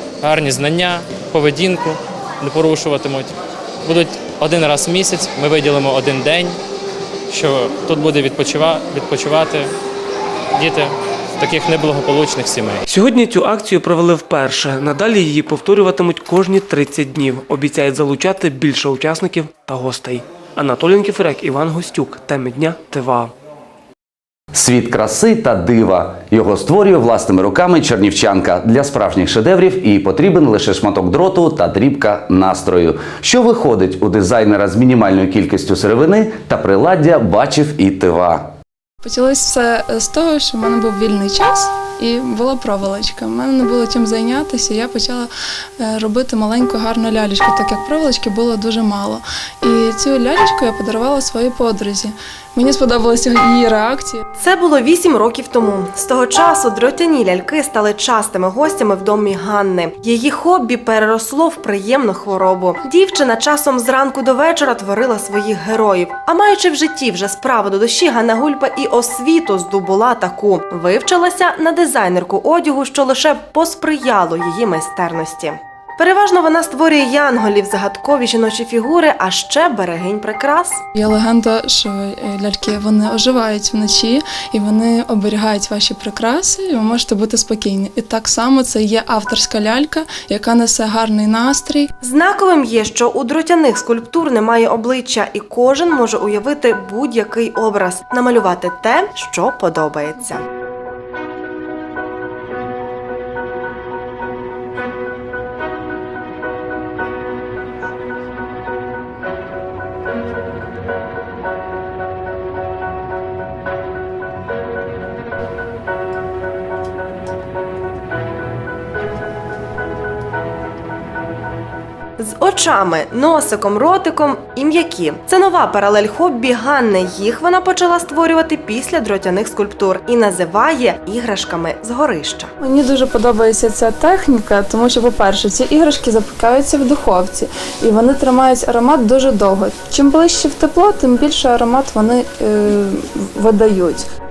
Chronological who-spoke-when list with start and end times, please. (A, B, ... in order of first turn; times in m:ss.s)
0:00.2-0:03.3 A
0:03.8-0:06.6 A
0:07.3-0:09.7 A
0:10.6-0:12.8 A
0:12.9-0:23.3 B
0:24.6-0:38.4 C
0:39.0-0:54.2 D
0:54.4-1:20.8 E
1:21.0-1:31.9 D
1:32.0-1:40.4 E
2:02.2-2:12.5 E
2:12.6-2:24.1 D